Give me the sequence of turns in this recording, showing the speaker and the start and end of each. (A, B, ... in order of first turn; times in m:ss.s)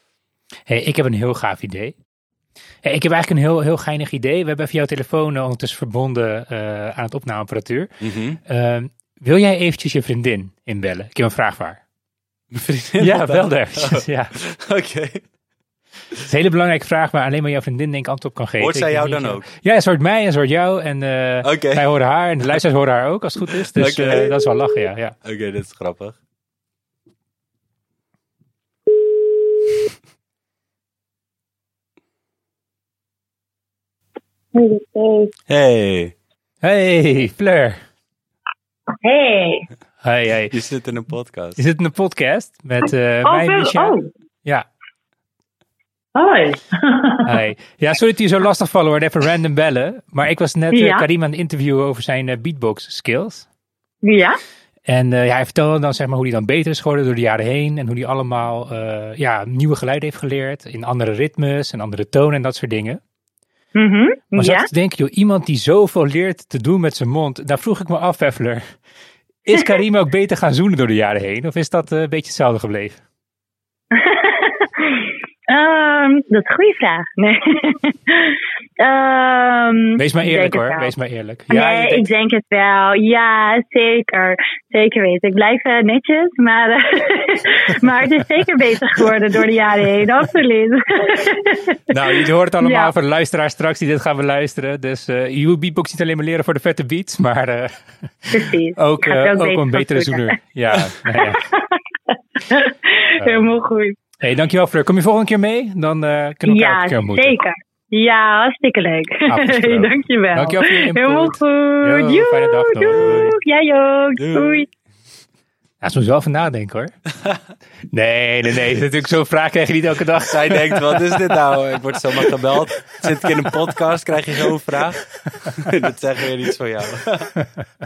0:00.7-0:02.0 A
0:02.8-0:07.9 A
0:08.0-0:08.4 B
0:08.4-0:11.8 A
0:12.5-0:15.2 B
0:13.0-0:14.3 A
0:16.2-0:25.1 A
0:18.6-0:19.5 B
0:21.4-0:21.9 B
0:23.7-0:24.4 B
0:25.2-0:26.2 B
0:34.5-0:35.3 C
0:35.5-0:36.1 B
0:36.6-0:37.8 A
0:39.0-0:39.7 C
0:40.0-0:40.5 A
0:40.5-0:41.6 B
0:41.6-0:44.6 A
0:43.2-0:44.1 C
0:46.2-0:47.3 C
0:47.2-0:53.5 A
0:50.7-0:51.0 C
0:54.0-0:54.4 C
0:54.9-1:03.0 A
1:03.7-1:04.7 C
1:04.4-1:08.8 A
1:09.4-1:13.0 A
1:13.9-1:20.9 C
1:20.0-1:22.1 A
1:21.5-1:32.9 C
1:31.9-1:41.4 A
1:38.3-1:40.3 C
1:41.2-1:41.8 C
1:42.4-1:44.0 C
1:43.2-1:43.5 A
1:44.2-1:47.4 A
1:46.5-1:54.7 C
1:49.3-1:53.3 A
1:52.9-1:53.3 B
1:54.2-1:54.7 B
1:55.8-1:56.9 A
1:57.9-2:01.3 A
2:00.2-2:07.3 B
2:05.4-2:05.7 A